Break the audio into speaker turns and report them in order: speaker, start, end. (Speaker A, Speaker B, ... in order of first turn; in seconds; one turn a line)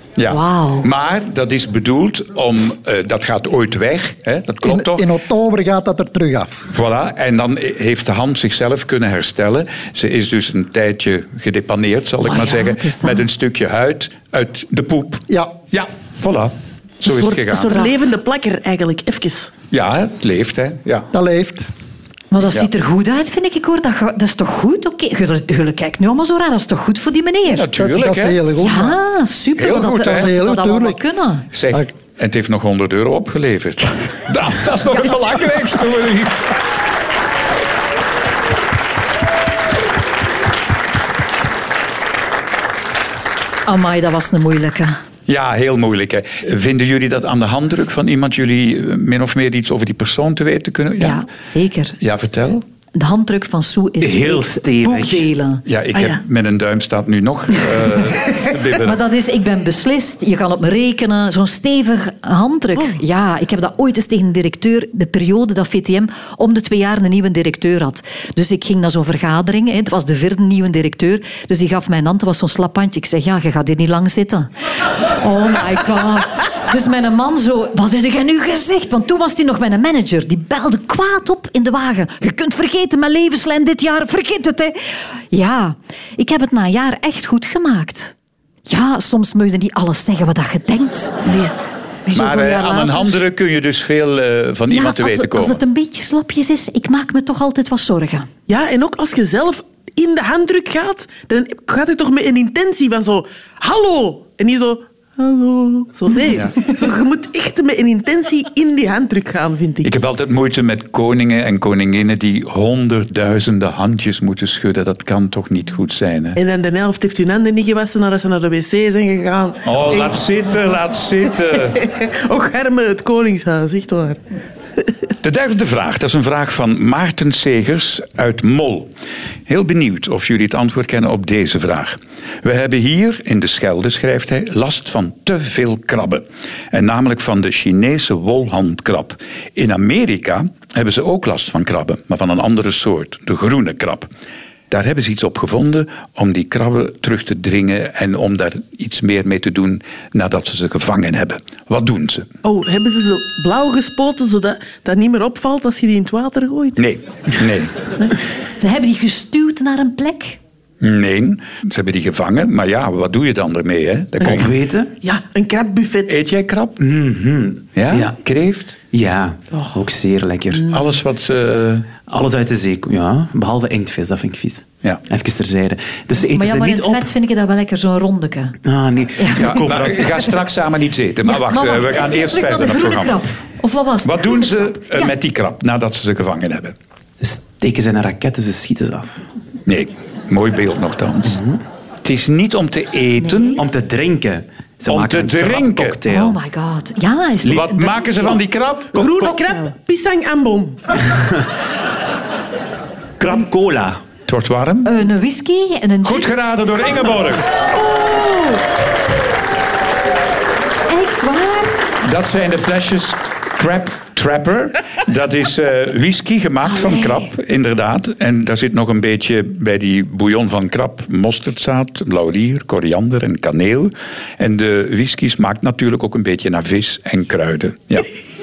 Speaker A: 0.2-5.1
Speaker B: 0.3-0.9
Speaker C: 4.6-6.6
Speaker A: 6.7-17.8
Speaker B: 12.2-13.2
Speaker C: 15.3-15.6
Speaker D: 17.1-19.5
Speaker B: 17.5-17.9
Speaker A: 19.7-21.1
Speaker C: 21.1-21.7
Speaker B: 22.3-27.7
Speaker A: 27.5-28.4
Speaker C: 27.8-29.0
Speaker B: 28.6-31.5
Speaker A: 29.6-30.3
Speaker C: 29.8-31.0
Speaker A: 31.5-36.5
Speaker B: 43.7-45.0
Speaker A: 45.3-51.2
Speaker B: 51.0-52.0
Speaker A: 52.0-52.6
Speaker B: 52.9-55.6
Speaker E: 54.0-55.3
Speaker A: 55.6-59.0
Speaker D: 55.9-56.2
Speaker B: 58.8-88.1
Speaker B: 88.7-91.3
Speaker D: 91.2-91.5
Speaker B: 92.0-93.1
Speaker A: 92.1-95.6
Speaker B: 94.7-98.3
Speaker D: 98.5-109.9
Speaker A: 109.8-116.4
Speaker D: 116.3-120.2
Speaker A: 119.6-121.8
Speaker D: 121.7-124.2
Speaker A: 125.2-128.9
Speaker A: 129.5-144.1
Speaker A: 144.7-152.3
Speaker D: 152.4-156.8
Speaker A: 156.8-157.9
Speaker B: 158.6-160.4
Speaker A: 160.8-164.5
Speaker E: 164.2-164.9
Speaker D: 165.0-166.2
Speaker A: 166.1-166.8
Speaker E: 166.8-168.1
Speaker A: 167.7-168.7
Speaker E: 168.9-170.7
Speaker A: 170.7-171.9
Speaker E: 172.1-177.1
Speaker B: 176.2-178.6
Speaker E: 178.6-180.4
Speaker B: 179.2-179.7
Speaker A: 179.3-183.2
Speaker B: 181.2-185.1
Speaker A: 184.0-186.7
Speaker E: 187.2-189.2
Speaker A: 189.7-191.4
Speaker E: 191.3-191.6
Speaker A: 192.0-193.6
Speaker B: 193.2-193.6
Speaker E: 193.6-196.4
Speaker A: 194.9-196.0
Speaker B: 196.1-198.4
Speaker A: 197.4-199.1
Speaker D: 198.9-200.9
Speaker E: 201.1-201.4
Speaker E: 203.2-204.0
Speaker A: 204.2-204.9
Speaker B: 204.8-206.3
Speaker A: 206.0-207.5
Speaker D: 207.7-208.6
Speaker B: 210.9-211.8
Speaker A: 212.0-228.1
Speaker B: 216.7-217.3